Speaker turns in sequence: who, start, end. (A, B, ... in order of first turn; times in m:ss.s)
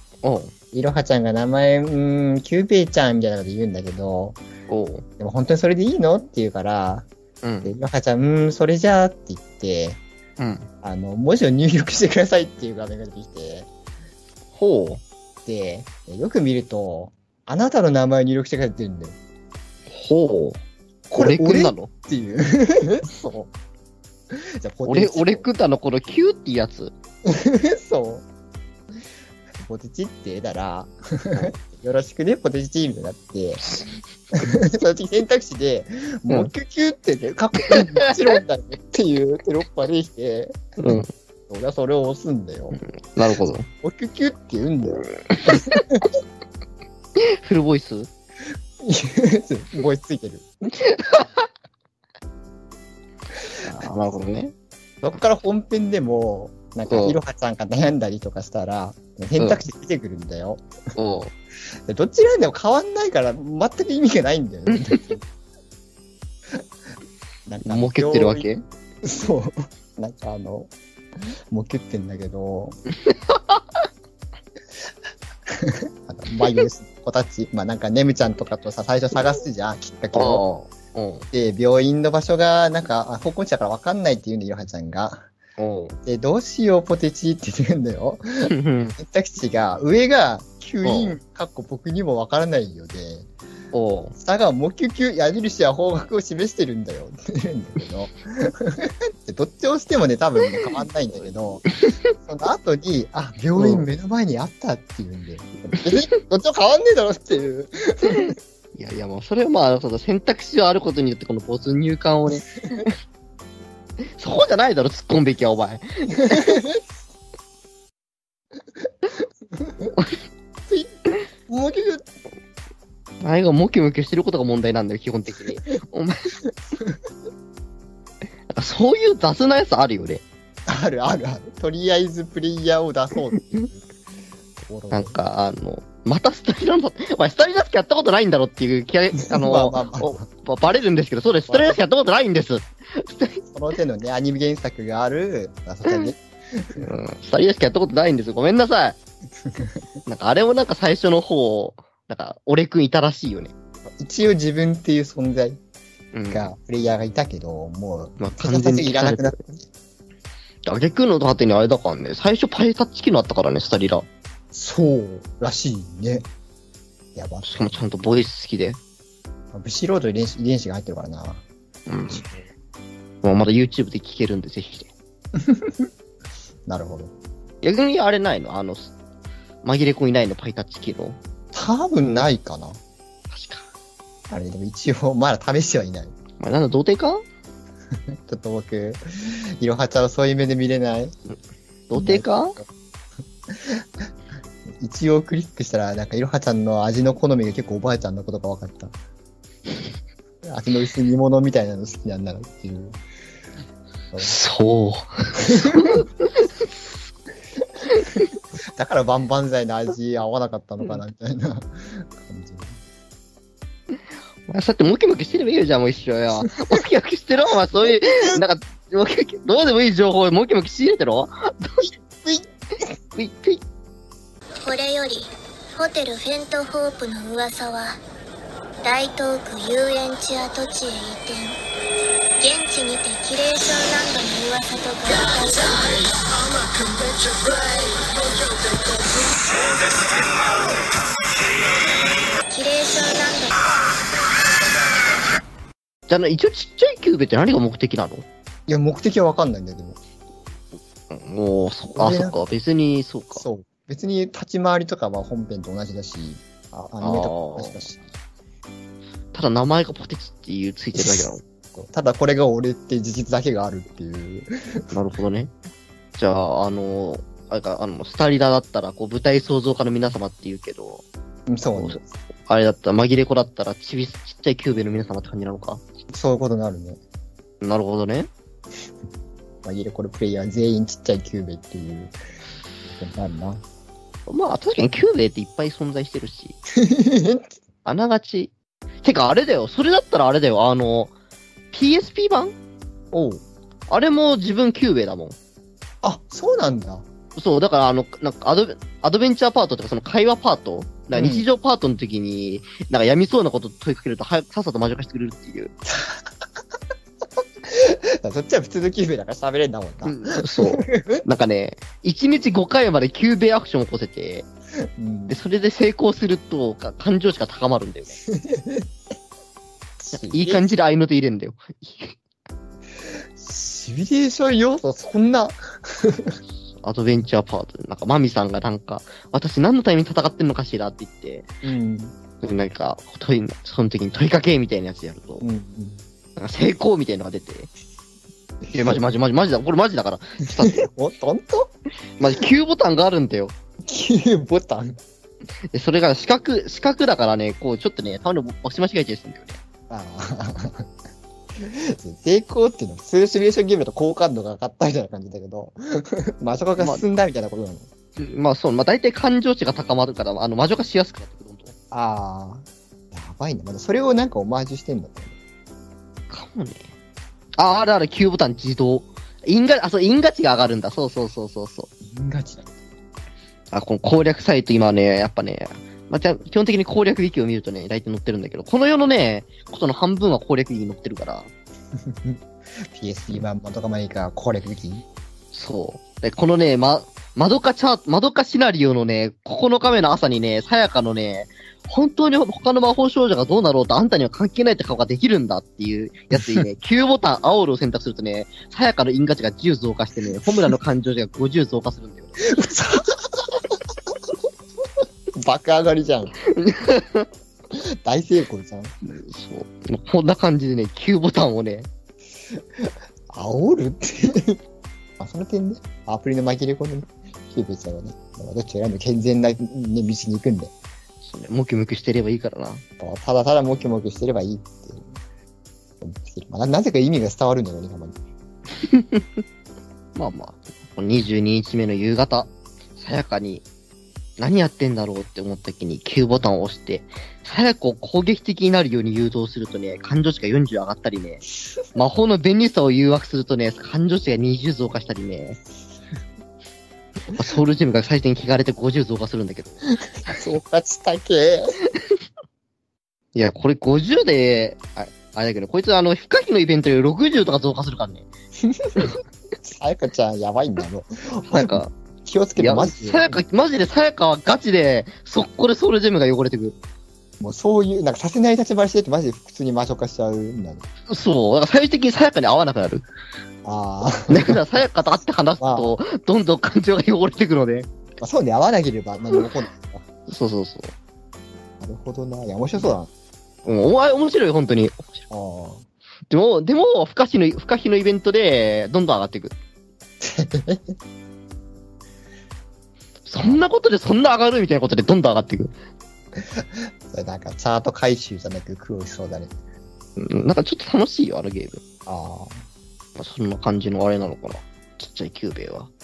0:00.2-0:00.5 A
0:00.7-0:04.4 B
0:04.7-0:05.0 A
0:05.2-0:07.1 B
0:07.4-0:07.7 A
0:07.6-0:10.0 B
0:10.4-0:10.7 A
0:10.8-0:13.7 B
0:14.5-0:15.0 A
0:15.5-0:19.2 B
0:19.9-0:20.6 A
0:21.1-0:23.5 B
0:21.2-0:21.9 A
0:24.3-0:25.5 B
0:24.9-0:26.9 A
0:27.3-0:28.3 B
0:29.6-0:33.6 B
0:33.6-0:33.9 A
0:34.4-0:40.5 B
0:37.8-0:38.4 A
0:40.8-0:41.1 A
0:41.5-0:42.8 B
0:43.2-0:43.7 A
0:43.8-0:46.0 B
0:45.3-0:45.8 A
0:47.3-0:48.1 A
0:48.8-0:50.5 B
0:50.8-0:51.4 A
0:53.6-0:54.5 A
0:55.0-1:00.7 B
0:56.9-0:57.2 A
1:01.0-1:01.3 A
1:01.9-1:05.2 B
1:04.7-1:05.1 A
1:07.5-1:08.5 B
1:07.7-1:08.6 A
1:09.0-1:10.7 B
1:11.2-1:12.8 B
1:13.1-1:13.6 A
1:15.5-1:20.4 B
1:20.1-1:21.3 A
1:21.3-1:25.3 B
1:25.6-1:26.0 A
1:26.0-1:33.3 B
1:28.5-1:29.0 A
1:30.8-1:31.2 A
1:33.7-1:34.1 A
1:34.2-1:41.6 B
1:42.2-1:48.4 B
1:43.6-1:43.8 A
1:48.1-1:52.9 A
1:54.2-1:56.6 A
1:59.6-1:59.9 B
2:00.7-2:01.0 B
2:01.5-2:02.0 B
2:03.2-2:06.3 A
2:08.5-2:10.2 A
2:10.7-2:14.0 B
2:14.6-2:15.2 B
2:14.9-2:23.4 A
2:19.3-2:20.3 B
2:21.5-2:21.8 B
2:23.5-2:26.9 B
2:26.8-2:29.0 A
2:29.5-2:29.8 B
2:30.1-2:33.5 A
2:34.0-2:35.6 B
2:36.1-2:36.5 A
2:36.3-2:39.6 B
2:38.2-2:39.6 A
2:40.7-2:44.1 A
2:44.5-2:46.3 B
2:47.2-2:47.9 B
2:47.4-2:48.8 A
2:49.5-2:51.4 B
2:51.9-2:52.3 A
2:52.1-2:52.4 B
2:53.2-2:54.9 A
2:55.4-2:55.9 B
2:56.7-2:57.1 B
2:57.6-2:58.9 A
2:59.6-3:01.2 A
3:01.5-3:02.8 B
3:03.3-3:03.6 A
3:04.3-3:06.1 B
3:06.4-3:07.2 A
3:08.3-3:09.0 B
3:09.6-3:11.2 B
3:11.9-3:12.6 A
3:12.0-3:12.3 B
3:13.5-3:13.8 B
3:14.8-3:18.9 B
3:20.4-3:23.0 B
3:24.2-3:26.7 A
3:28.8-3:32.8 B
3:34.5-3:41.8 A
3:38.1-3:38.4 B
3:41.8-3:42.5 B
3:43.2-3:43.6 A
3:44.6-3:48.0 C
3:48.8-3:51.6 C
3:52.4-3:56.2 C
3:57.0-3:58.2 C
3:58.9-3:59.3 C
4:02.5-4:03.6 C
4:06.1-4:08.3 A
4:08.7-4:10.0 B
4:11.1-4:13.4 A
4:12.0-4:12.4 B
4:13.3-4:18.1 B
4:17.0-4:17.9 A
4:19.3-4:21.4 A
4:21.0-4:24.5 B
4:24.9-4:25.5 A
4:26.2-4:31.0 A
4:31.5-4:32.1 B
4:31.8-4:35.8 A
4:36.1-4:37.0 B
4:37.6-4:38.3 A
4:39.6-4:42.2 B
4:42.9-4:43.6 B
4:44.3-4:46.6 A
4:46.8-4:47.5 B
4:47.8-4:51.1 A
4:51.7-4:52.6 A
4:53.1-4:53.4 B
4:53.9-4:55.4 A
4:56.0-4:57.0 B
4:57.4-5:05.7 A
5:01.1-5:01.5 B
5:05.8-5:06.3 B
5:07.7-5:11.2 B
5:10.0-5:14.5 A
5:15.0-5:15.4 B
5:15.3-5:18.2 A
5:18.3-5:18.9 B
5:20.0-5:20.6 B
5:20.2-5:22.2 A
5:23.4-5:26.4 B
5:26.8-5:31.5 A
5:31.6-5:32.2 B
5:32.4-5:35.4 A
5:35.4-5:36.0 B
5:36.4-5:37.7 A
5:38.6-5:39.0 B
5:38.7-5:40.9 A
5:40.7-5:41.7 B
5:42.2-5:43.5 A
5:43.9-5:45.0 B
5:45.7-5:49.6 A
5:49.9-5:50.9 B
5:51.6-5:57.9 B
5:56.8-5:57.0 A
5:58.2-6:01.7 A
6:01.9-6:05.3 B
6:06.3-6:06.9 A
6:07.6-6:11.9 A
6:12.1-6:12.7 B
6:13.7-6:21.5 A
6:22.1-6:25.0 B
6:25.5-6:42.6 A
6:42.4-6:43.8 B
6:45.4-6:46.4 B
6:46.5-6:47.3 A
6:48.0-6:48.9 B
6:49.0-6:51.9 A
6:53.3-6:54.6 B
6:55.2-7:00.7 B
7:01.2-7:02.8 A
7:03.0-7:05.1 B
7:06.0-7:08.2 B
7:08.8-7:09.4 A
7:10.2-7:13.6 A
7:14.4-7:21.4 A
7:22.0-7:25.6 A
7:27.3-7:29.9 A
7:30.3-7:31.7 B
7:33.4-7:38.3 A
7:38.6-7:39.1 B
7:39.6-7:43.4 B
7:41.5-7:41.9 A
7:42.6-7:46.8 A
7:47.4-7:50.8 B
7:51.1-7:53.0 A
7:53.6-7:54.6 B
7:54.3-7:57.9 A
7:55.6-7:56.0 B
7:58.2-8:00.0 B
8:00.3-8:00.9 A
8:01.8-8:03.1 B
8:03.6-8:05.2 A
8:05.3-8:05.8 B
8:06.3-8:09.6 A
8:10.2-8:10.9 B
8:13.2-8:15.7 A
8:16.4-8:19.5 B
8:20.2-8:21.8 A
8:22.1-8:22.6 B
8:23.2-8:25.9 A